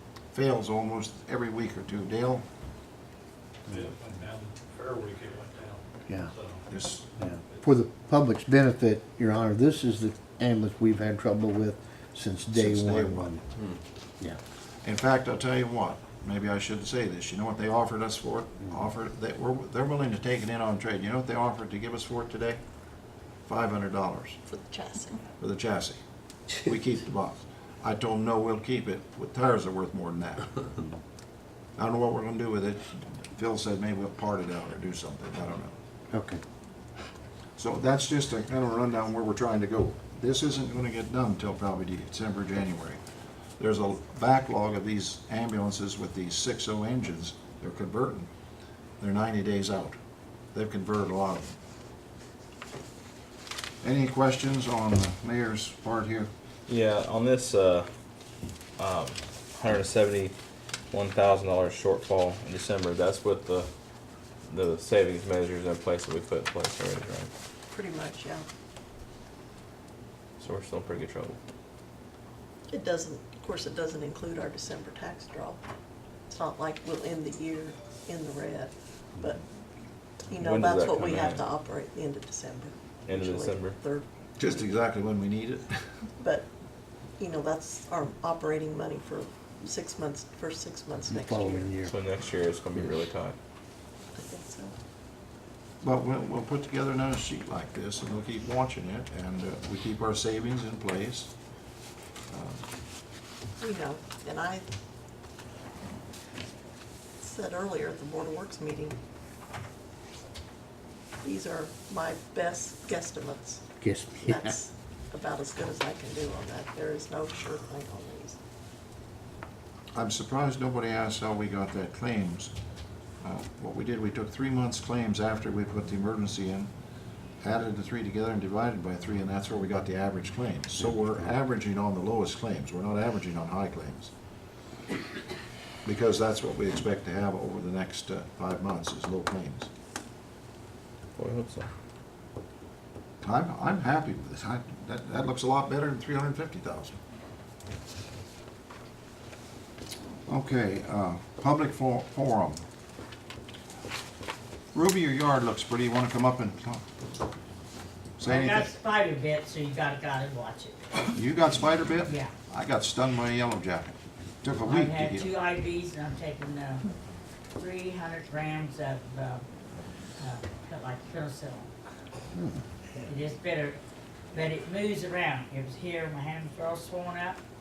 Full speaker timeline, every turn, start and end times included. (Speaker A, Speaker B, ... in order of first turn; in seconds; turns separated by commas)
Speaker A: 0.3-2.5, Speaker B: 3.7-6.6, Speaker A: 6.7-7.1, Speaker C: 7.2-13.4, Speaker A: 12.5-13.4, Speaker A: 14.8-22.6, Speaker A: 23.5-24.4, Speaker D: 24.5-25.2, Speaker A: 25.4-26.0, Speaker A: 26.6-30.5, Speaker A: 31.8-35.7, Speaker C: 36.1-36.4, Speaker A: 37.6-43.0, Speaker A: 43.6-48.3, Speaker A: 49.0-50.0, Speaker A: 50.5-51.5, Speaker A: 53.8-56.3, Speaker E: 56.7-57.9, Speaker E: 58.8-60.3, Speaker E: 60.9-63.7, Speaker E: 64.5-67.3, Speaker D: 67.7-68.5, Speaker E: 70.4-71.4, Speaker D: 72.7-75.6, Speaker D: 76.3-79.4, Speaker D: 80.3-84.0, Speaker E: 80.3-81.5, Speaker E: 83.1-83.8, Speaker A: 84.4-85.7, Speaker D: 86.2-86.5, Speaker D: 87.2-91.7, Speaker C: 91.1-91.9, Speaker E: 91.9-93.3, Speaker D: 94.2-94.7, Speaker A: 95.8-101.3, Speaker A: 102.3-102.6, Speaker D: 103.6-104.7, Speaker D: 107.2-109.0, Speaker D: 111.2-113.7, Speaker C: 113.8-114.6, Speaker D: 114.2-118.4, Speaker A: 119.9-122.5, Speaker A: 123.2-126.7, Speaker A: 127.4-134.1, Speaker A: 135.8-139.7, Speaker E: 141.2-141.7, Speaker A: 143.2-147.0, Speaker A: 150.3-152.6, Speaker A: 154.7-156.8, Speaker A: 158.2-158.7, Speaker F: 158.2-160.8, Speaker A: 161.1-165.3, Speaker F: 162.1-162.3, Speaker F: 164.6-166.9, Speaker F: 167.6-169.4, Speaker F: 170.2-171.7, Speaker F: 173.0-173.8, Speaker F: 174.3-177.4